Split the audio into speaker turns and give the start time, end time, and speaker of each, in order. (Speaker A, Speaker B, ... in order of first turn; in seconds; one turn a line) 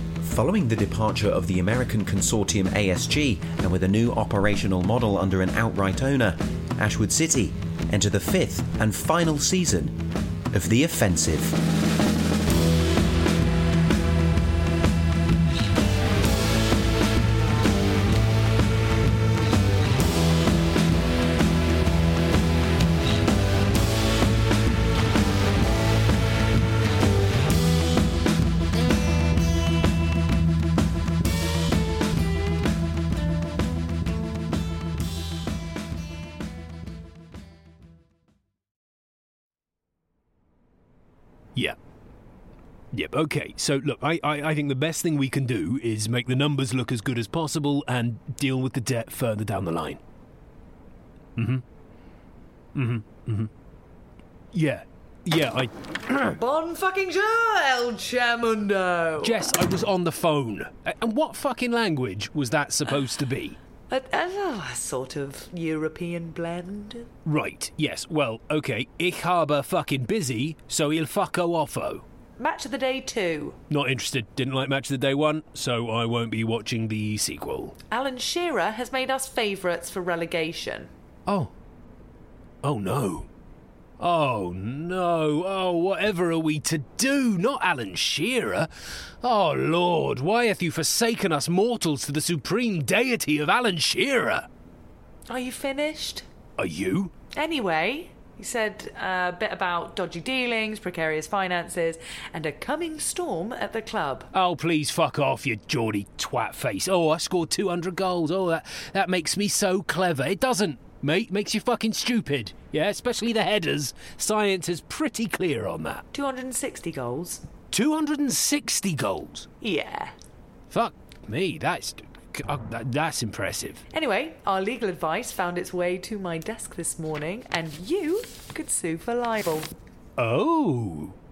Speaker A: 0.2-11.6
Speaker B: 42.9-50.0
Speaker B: 51.4-51.6
Speaker B: 52.7-53.5
Speaker B: 54.5-56.4
Speaker C: 56.4-59.4
Speaker B: 59.2-63.6
Speaker C: 63.9-67.1
Speaker B: 67.2-72.0
Speaker C: 72.4-73.6
Speaker B: 73.7-77.8
Speaker C: 77.9-80.9
Speaker B: 82.6-83.3
Speaker B: 84.0-88.7
Speaker B: 89.2-94.5
Speaker C: 95.3-96.2
Speaker B: 96.6-97.1
Speaker C: 97.3-104.3
Speaker B: 104.3-116.0
Speaker C: 116.1-117.5
Speaker B: 117.7-119.5
Speaker C: 119.6-120.1
Speaker B: 120.7-123.8
Speaker C: 123.9-129.7
Speaker B: 130.2-131.2